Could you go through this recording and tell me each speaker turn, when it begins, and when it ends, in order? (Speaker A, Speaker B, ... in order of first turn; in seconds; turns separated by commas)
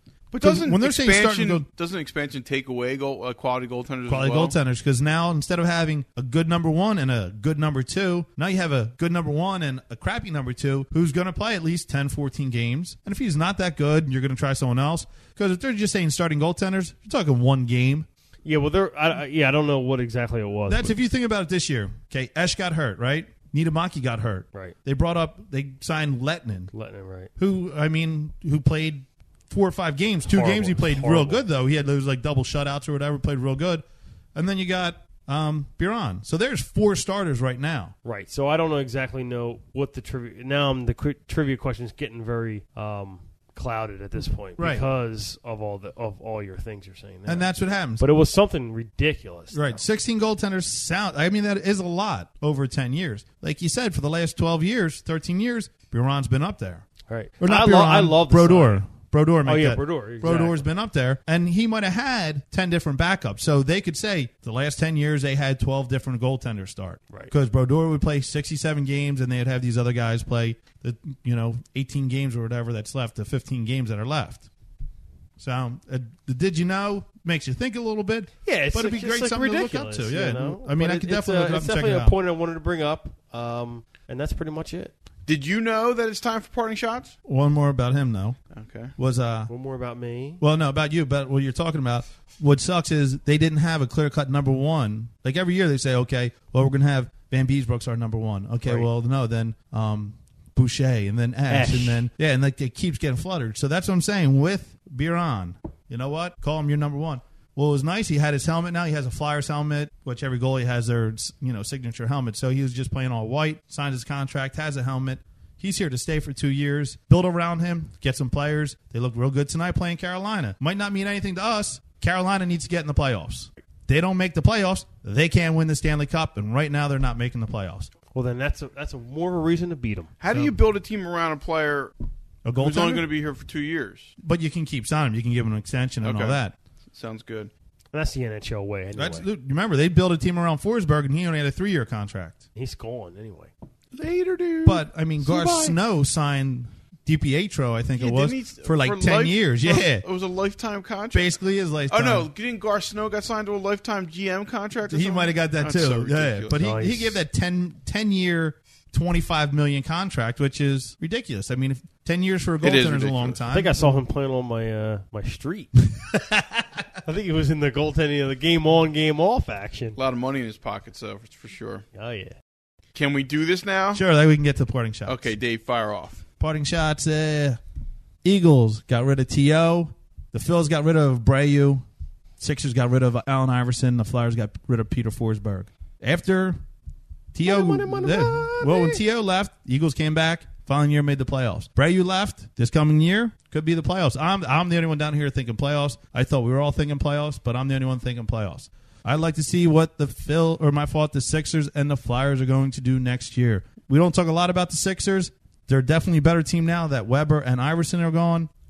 Speaker A: 0.3-4.5, Speaker B: 0.4-1.6, Speaker B: 4.1-18.1, Speaker C: 18.4-20.9, Speaker B: 20.7-26.7, Speaker C: 26.7-27.3, Speaker B: 27.4-33.8, Speaker C: 30.3-31.4, Speaker B: 34.3-37.9, Speaker C: 38.0-49.7, Speaker B: 44.6-44.8, Speaker B: 47.3-48.0, Speaker B: 49.5-56.9, Speaker C: 57.1-58.8, Speaker B: 57.4-74.5, Speaker C: 59.4-60.6, Speaker B: 75.4-82.1, Speaker C: 78.4-84.9, Speaker A: 85.3-87.1, Speaker B: 87.2-88.4, Speaker A: 88.5-88.9, Speaker B: 89.0-89.5, Speaker C: 89.5-90.4, Speaker B: 90.4-127.9, Speaker C: 101.5-102.0, Speaker C: 128.1-130.1, Speaker A: 130.2-131.9, Speaker B: 130.3-130.6, Speaker B: 132.4-133.0, Speaker A: 132.6-134.1, Speaker B: 134.2-136.5, Speaker A: 136.0-136.4, Speaker A: 136.9-137.5, Speaker C: 137.9-139.3, Speaker B: 138.9-142.4, Speaker C: 142.5-143.5, Speaker A: 143.9-144.8, Speaker B: 144.6-150.0, Speaker C: 145.2-145.7, Speaker A: 148.0-151.3, Speaker B: 151.1-152.3, Speaker A: 151.9-156.6, Speaker B: 154.9-164.0, Speaker C: 156.6-157.2, Speaker A: 162.6-163.4, Speaker C: 163.5-165.7, Speaker B: 165.8-166.9, Speaker C: 167.0-170.0, Speaker A: 169.9-171.8, Speaker C: 171.9-172.3, Speaker A: 172.9-174.0, Speaker B: 173.9-175.3, Speaker A: 175.1-176.2, Speaker B: 176.4-177.6, Speaker B: 178.2-181.8, Speaker B: 182.4-186.6, Speaker B: 187.3-208.5, Speaker C: 187.4-189.0